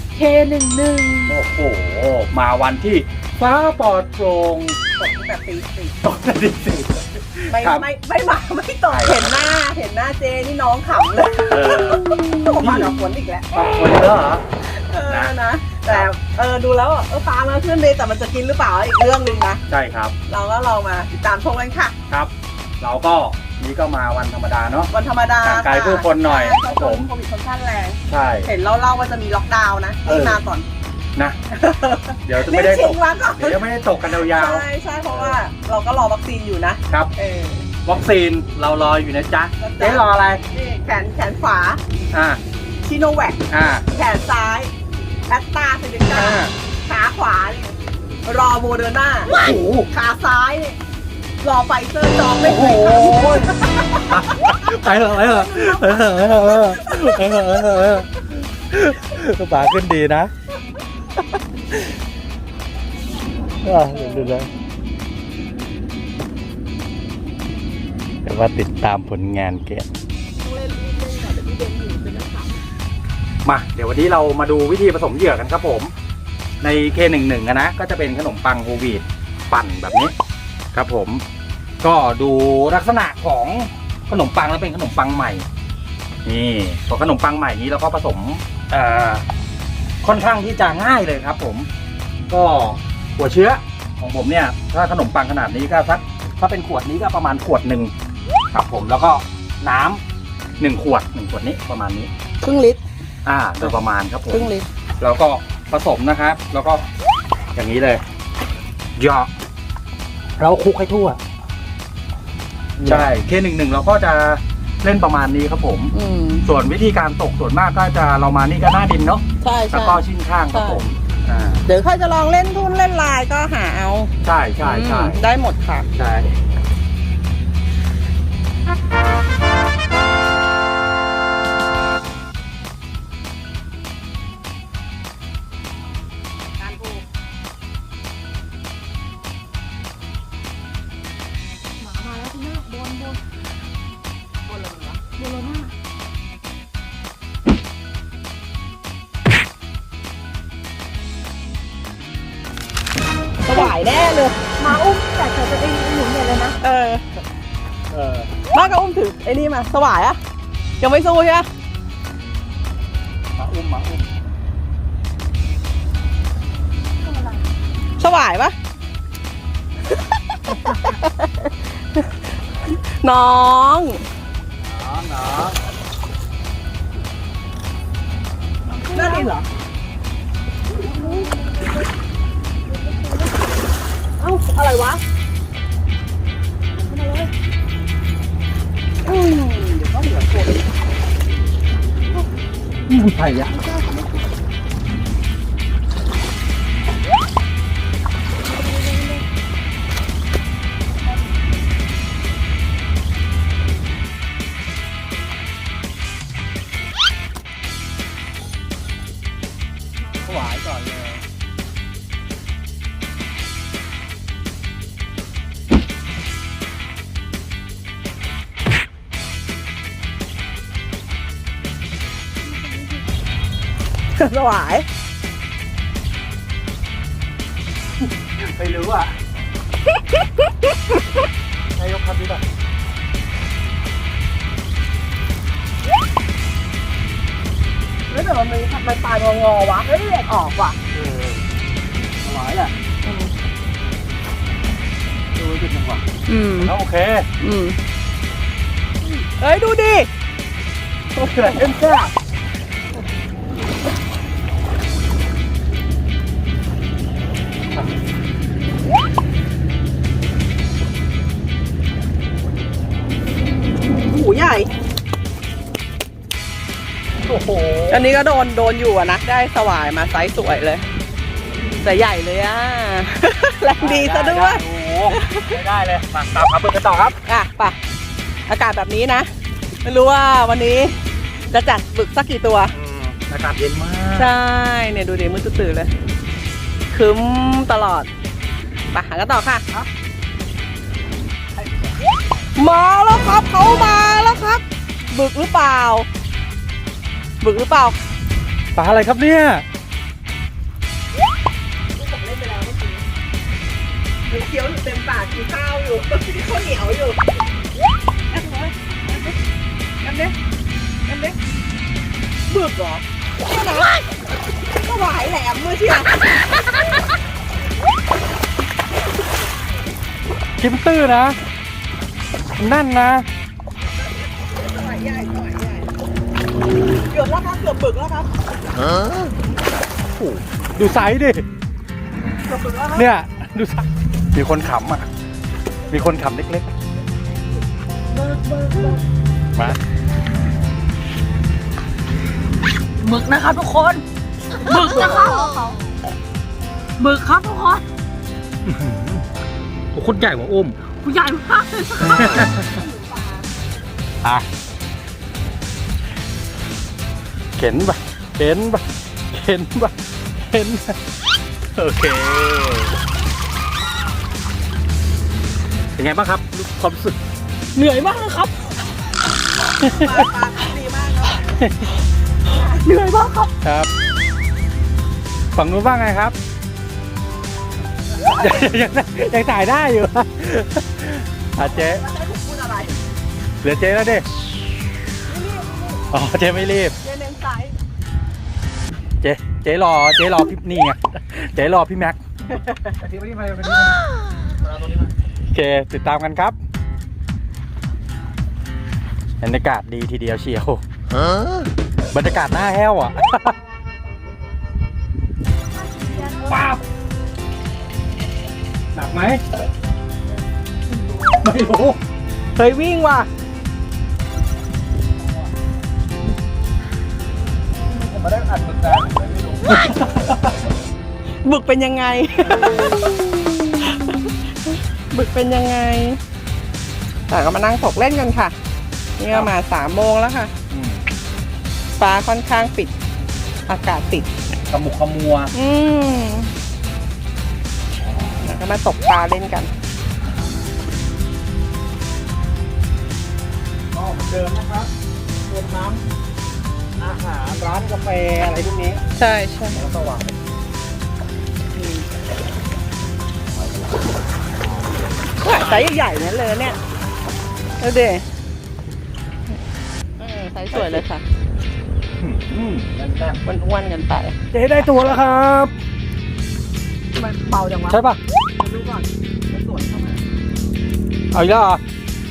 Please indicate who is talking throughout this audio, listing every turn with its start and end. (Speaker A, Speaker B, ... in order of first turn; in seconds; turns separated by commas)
Speaker A: 0.1-1.4, Speaker B: 1.3-4.8, Speaker C: 5.0-6.0, Speaker B: 6.0-7.8, Speaker C: 7.5-13.5, Speaker B: 8.9-9.5, Speaker B: 11.5-12.9, Speaker B: 13.5-14.4, Speaker C: 14.6-19.6, Speaker B: 15.1-15.3, Speaker B: 19.7-20.1, Speaker C: 20.3-21.9, Speaker B: 22.1-24.9, Speaker C: 24.9-30.7, Speaker B: 25.4-27.1, Speaker B: 28.1-28.5, Speaker B: 30.1-30.4, Speaker C: 31.5-37.7, Speaker B: 32.3-35.4, Speaker B: 37.9-40.4, Speaker C: 39.6-41.8, Speaker B: 42.1-42.4, Speaker C: 42.8-44.7, Speaker B: 43.5-43.9, Speaker C: 45.3-49.4, Speaker B: 46.1-46.5, Speaker B: 49.3-49.9, Speaker C: 49.9-50.8, Speaker C: 51.4-54.2, Speaker B: 52.4-60.3, Speaker C: 55.2-57.2, Speaker B: 63.6-64.5, Speaker C: 63.9-64.4, Speaker B: 68.2-69.9, Speaker C: 70.5-72.5, Speaker A: 71.0-72.4, Speaker B: 73.4-75.9, Speaker B: 76.6-80.1, Speaker B: 80.7-81.2, Speaker B: 81.8-85.5, Speaker B: 86.2-89.2, Speaker B: 90.0-91.7, Speaker B: 92.3-97.9, Speaker B: 98.5-100.0, Speaker B: 100.6-102.1, Speaker C: 102.4-102.8, Speaker B: 103.3-106.9, Speaker C: 104.3-104.7, Speaker B: 107.5-108.0, Speaker B: 109.0-109.3, Speaker B: 110.4-111.2, Speaker B: 112.8-115.9, Speaker C: 115.9-116.5, Speaker B: 116.5-121.6, Speaker C: 119.4-120.8, Speaker C: 121.7-125.9, Speaker B: 124.2-125.2, Speaker B: 126.0-126.3, Speaker C: 136.6-137.0, Speaker A: 141.8-143.2, Speaker C: 144.5-145.1, Speaker A: 145.1-145.7, Speaker C: 153.5-154.5, Speaker A: 154.6-156.6, Speaker C: 156.6-157.0, Speaker B: 157.9-158.3, Speaker C: 158.5-160.2, Speaker C: 160.8-161.5, Speaker B: 163.4-164.1, Speaker C: 168.0-168.6, Speaker C: 170.5-172.1, Speaker C: 172.7-174.0, Speaker B: 174.6-175.6, Speaker A: 178.8-179.4, Speaker C: 178.9-179.5, Speaker C: 180.8-181.3, Speaker A: 180.8-181.5, Speaker C: 184.2-185.0, Speaker C: 186.9-187.3, Speaker C: 189.1-190.6, Speaker B: 192.9-193.7, Speaker B: 210.2-211.2, Speaker C: 224.2-224.9, Speaker B: 228.2-229.2, Speaker B: 231.8-232.4, Speaker C: 238.1-240.8, Speaker B: 240.9-241.4, Speaker B: 242.2-242.7, Speaker C: 243.0-243.3, Speaker B: 245.4-246.0, Speaker C: 246.3-246.7, Speaker B: 246.6-247.3, Speaker C: 247.4-247.8, Speaker C: 249.3-250.1, Speaker C: 251.2-252.1, Speaker B: 251.2-252.1, Speaker C: 263.9-264.7, Speaker B: 267.3-268.0, Speaker C: 267.9-270.8, Speaker C: 271.8-275.6, Speaker B: 273.8-277.2, Speaker C: 277.3-277.8, Speaker C: 278.5-279.3, Speaker C: 279.8-281.0, Speaker C: 281.5-282.7, Speaker B: 282.7-284.3, Speaker C: 284.1-285.9, Speaker C: 286.9-288.1, Speaker C: 288.9-289.6, Speaker B: 291.6-291.9, Speaker C: 292.6-296.1, Speaker C: 297.4-298.0, Speaker B: 298.8-299.6, Speaker C: 301.9-303.1, Speaker C: 304.3-307.2, Speaker C: 308.3-309.4, Speaker C: 310.0-310.4, Speaker C: 311.1-311.4, Speaker C: 312.5-314.0, Speaker C: 314.7-316.7, Speaker B: 320.6-321.4, Speaker B: 322.6-323.3, Speaker C: 324.4-325.9, Speaker C: 327.0-328.3, Speaker B: 330.2-331.4, Speaker C: 332.4-333.1, Speaker B: 332.9-335.1, Speaker B: 335.9-336.7, Speaker A: 338.2-339.0, Speaker C: 338.3-338.9, Speaker A: 343.0-344.0, Speaker A: 344.6-345.8, Speaker C: 344.7-345.7, Speaker A: 347.0-347.8, Speaker B: 348.6-349.2, Speaker B: 349.9-350.8, Speaker A: 351.0-352.3, Speaker B: 352.0-352.8, Speaker C: 352.2-353.5, Speaker B: 357.6-361.0, Speaker B: 361.8-362.9, Speaker B: 366.0-367.2, Speaker A: 367.8-368.8, Speaker C: 369.8-371.4, Speaker B: 369.8-370.3, Speaker B: 371.4-371.9, Speaker C: 372.5-373.1, Speaker A: 372.9-373.5, Speaker B: 373.6-373.9, Speaker B: 375.6-376.4, Speaker B: 378.2-382.0, Speaker C: 381.6-383.0, Speaker B: 383.6-384.3, Speaker C: 385.3-386.0, Speaker B: 386.1-386.9, Speaker C: 387.0-387.7, Speaker B: 389.2-392.2, Speaker C: 392.5-393.0, Speaker B: 393.0-394.0, Speaker B: 395.5-396.6, Speaker B: 399.4-400.8, Speaker B: 402.1-403.6, Speaker A: 405.9-406.7, Speaker B: 406.3-406.8, Speaker B: 408.9-409.4, Speaker B: 411.4-412.0, Speaker C: 412.6-413.3, Speaker B: 417.9-420.5, Speaker C: 421.4-423.0, Speaker B: 422.5-423.0, Speaker C: 423.7-426.2, Speaker C: 427.3-428.5, Speaker C: 429.2-430.5, Speaker B: 430.7-431.0, Speaker C: 432.0-432.9, Speaker C: 433.7-434.3, Speaker B: 434.7-435.5, Speaker C: 435.5-436.5, Speaker C: 438.4-439.7, Speaker B: 443.9-444.9, Speaker B: 445.5-446.0, Speaker B: 447.0-449.0, Speaker C: 449.1-449.8, Speaker B: 449.7-450.3, Speaker C: 451.8-452.1, Speaker C: 455.4-456.8, Speaker C: 457.8-458.2, Speaker C: 460.2-461.2, Speaker B: 460.7-461.0, Speaker B: 462.2-463.4, Speaker C: 463.4-464.4, Speaker B: 464.5-465.7, Speaker C: 467.1-468.0, Speaker B: 467.9-468.2, Speaker C: 468.6-470.2, Speaker B: 471.3-471.8